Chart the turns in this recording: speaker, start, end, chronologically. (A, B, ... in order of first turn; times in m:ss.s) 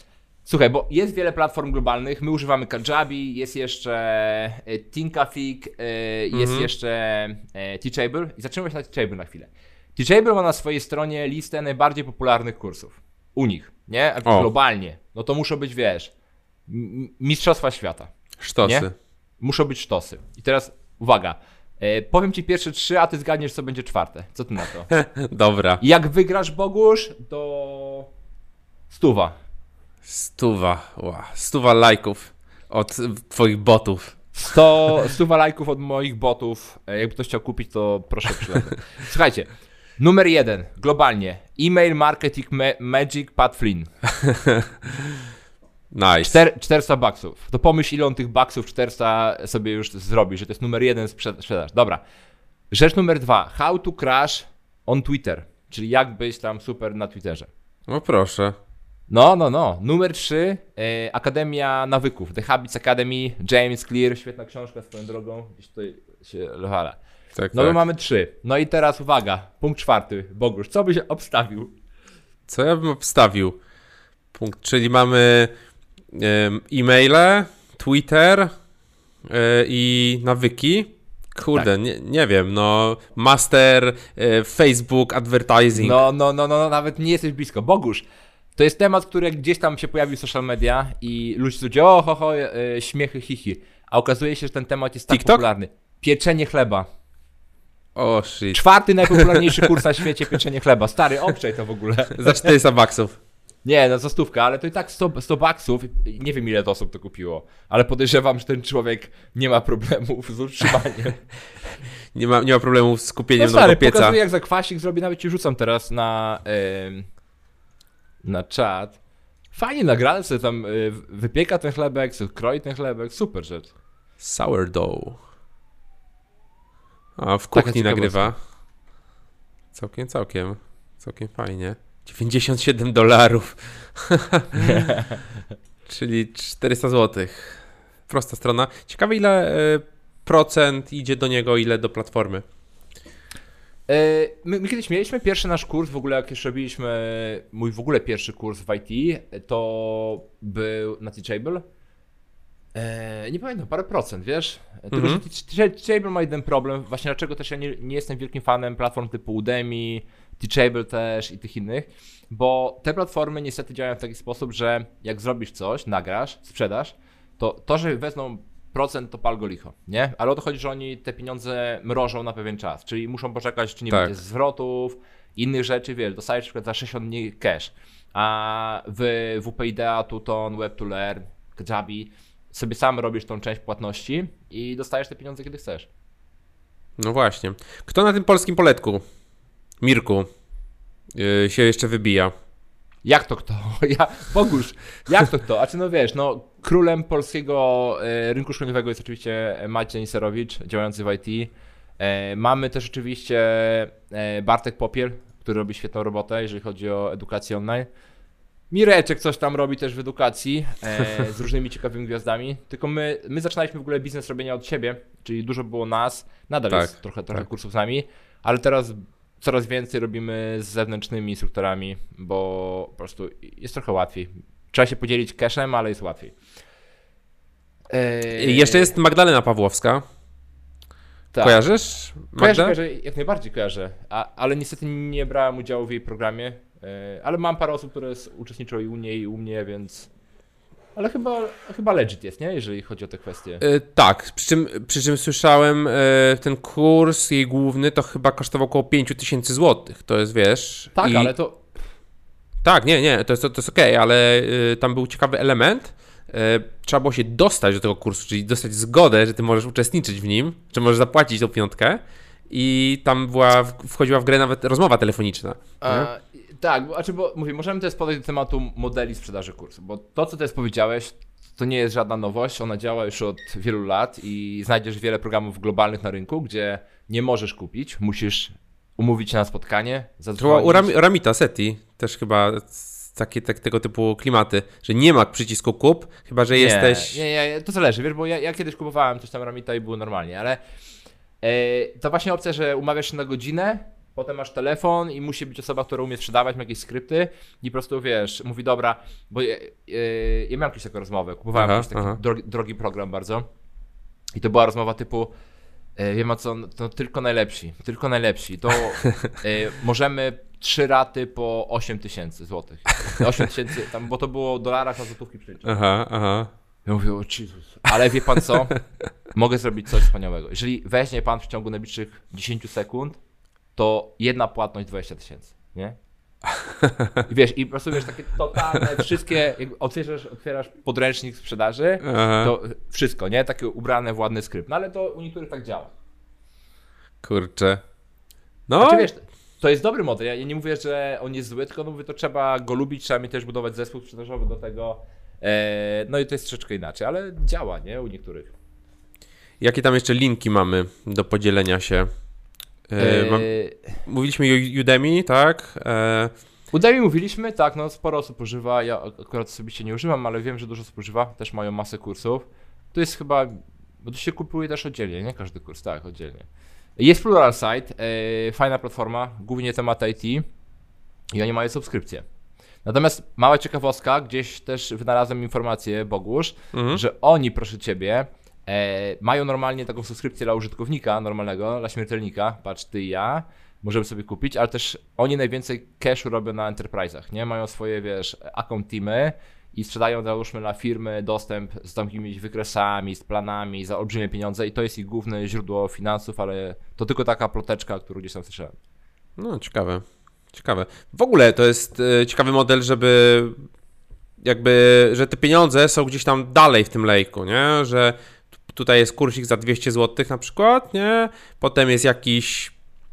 0:00.5-0:16.1 A
0:06.3-0:06.7 B
0:16.7-0:18.9 A
0:18.4-0:18.9 B
0:19.4-0:24.9 A
0:24.9-0:25.8 B
0:25.8-0:28.1 A
0:28.9-0:29.4 A
0:30.0-0:34.2 B
0:34.3-0:43.9 A
0:44.2-0:44.7 B
0:45.9-0:46.4 B
0:46.2-0:52.0 A
0:52.7-0:57.5 A
0:57.9-0:58.6 B
0:59.1-1:07.0 A
1:07.4-1:07.8 B
1:07.5-1:11.7 A
1:12.5-1:13.6 B
1:14.3-1:15.5 B
1:16.1-1:18.5 B
1:19.3-1:26.0 B
1:25.8-1:28.0 A
1:28.6-1:36.9 A
1:35.1-1:35.4 B
1:37.9-1:39.7 B
1:38.5-1:42.5 A
1:42.2-1:43.2 B
1:43.6-1:51.2 A
1:52.1-1:54.2 B
1:53.4-1:57.1 A
1:58.2-1:59.0 A
1:59.5-2:03.7 A
2:04.2-2:05.2 B
2:07.2-2:08.4 B
2:07.5-2:08.3 A
2:09.7-2:14.9 B
2:14.6-2:15.2 A
2:15.9-2:22.5 B
2:23.9-2:31.6 A
2:32.7-3:05.9 A
2:34.9-2:35.2 B
3:07.0-3:09.0 B
3:09.8-3:10.3 B
3:11.1-3:12.3 B
3:13.0-3:27.9 A
3:28.7-3:46.4 A
3:47.9-3:48.9 A
3:48.4-3:50.0 B
3:51.3-3:51.7 A
3:51.4-3:52.8 B
3:52.4-4:00.1 A
4:01.0-4:03.6 A
4:03.6-4:11.3 B
4:10.9-4:11.7 A
4:12.6-4:26.1 B
4:25.8-4:40.9 A
4:40.4-4:47.2 B
4:46.5-4:50.6 A
4:51.4-5:03.4 A
5:01.5-5:02.2 B
5:04.3-5:05.3 A
5:06.0-5:15.7 A
5:15.6-5:16.5 B
5:16.8-5:18.8 A
5:19.3-5:23.2 A
5:23.8-5:26.0 A
5:26.8-5:27.2 B
5:27.2-5:35.9 A
5:32.0-5:32.5 B
5:37.2-5:37.8 B
5:38.7-5:39.1 B
5:38.8-5:48.5 A
5:49.6-5:52.1 B
5:52.9-5:53.5 B
5:53.0-5:53.9 A
5:54.0-5:56.3 B
5:56.7-6:06.5 A
6:07.0-6:10.4 A
6:11.3-6:12.2 A
6:12.8-6:38.8 A
6:16.7-6:17.0 B
6:39.4-6:43.6 B
6:44.4-6:48.2 B
6:48.7-6:52.7 B